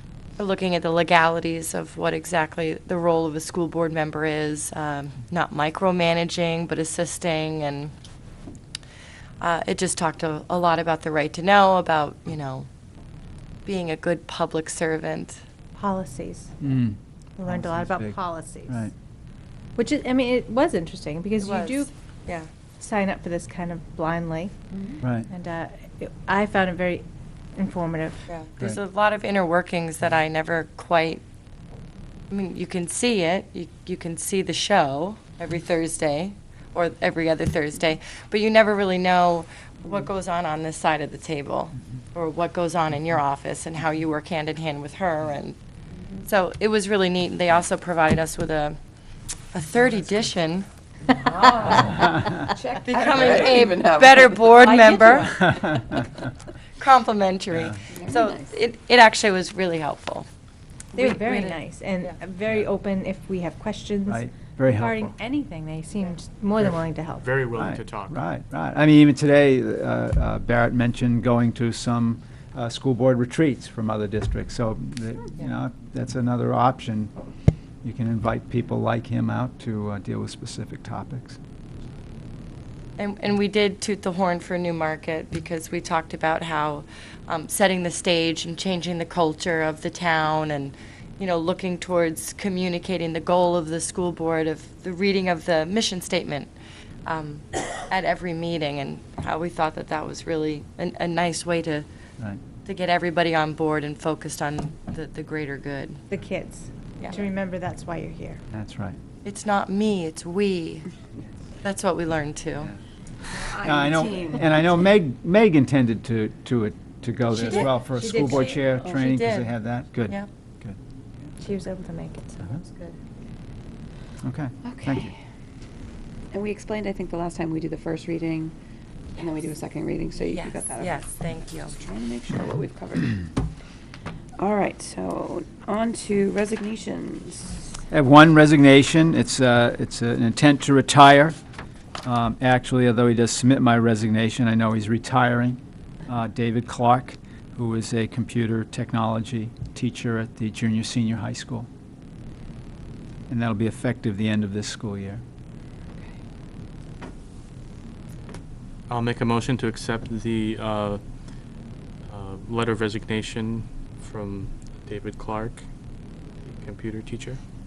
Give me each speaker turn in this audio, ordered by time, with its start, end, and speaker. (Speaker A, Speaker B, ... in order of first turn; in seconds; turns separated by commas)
Speaker A: 0.4-7.9, Speaker A: 9.4-12.7, Speaker A: 13.6-15.4, Speaker B: 15.8-16.6, Speaker C: 16.6-18.9, Speaker B: 17.4-18.9, Speaker B: 19.8-21.9, Speaker A: 21.4-22.5, Speaker B: 22.8-24.6, Speaker D: 24.7-25.0, Speaker C: 25.0-25.3, Speaker B: 25.3-27.1, Speaker B: 27.6-28.2, Speaker A: 28.3-31.2, Speaker A: 32.3-45.6, Speaker D: 45.9-46.2, Speaker A: 46.2-48.8, Speaker A: 49.5-50.7, Speaker A: 51.3-52.2, Speaker D: 51.4-55.3, Speaker A: 52.8-55.5, Speaker C: 55.2-56.1, Speaker A: 56.8-60.3, Speaker C: 57.5-57.8, Speaker D: 57.9-58.6, Speaker B: 61.0-67.4, Speaker A: 61.0-62.1, Speaker C: 64.1-65.1, Speaker E: 66.6-68.2, Speaker C: 67.5-77.1, Speaker C: 77.8-81.4, Speaker A: 83.0-96.5, Speaker A: 97.0-101.9, Speaker A: 102.6-106.0, Speaker B: 106.1-108.4, Speaker C: 108.5-109.0, Speaker A: 109.2-110.9, Speaker A: 111.6-112.7, Speaker D: 113.3-114.6, Speaker C: 113.6-121.3, Speaker A: 117.4-119.5, Speaker B: 117.5-118.6, Speaker B: 121.4-123.0, Speaker C: 124.2-125.1, Speaker D: 124.6-125.1, Speaker D: 126.3-128.5, Speaker D: 129.2-131.1, Speaker A: 130.2-131.8, Speaker D: 131.7-133.3, Speaker D: 134.4-137.6, Speaker C: 137.9-141.3, Speaker C: 142.0-151.7, Speaker C: 153.3-155.2, Speaker E: 158.9-161.0, Speaker E: 162.1-165.7, Speaker E: 166.4-167.4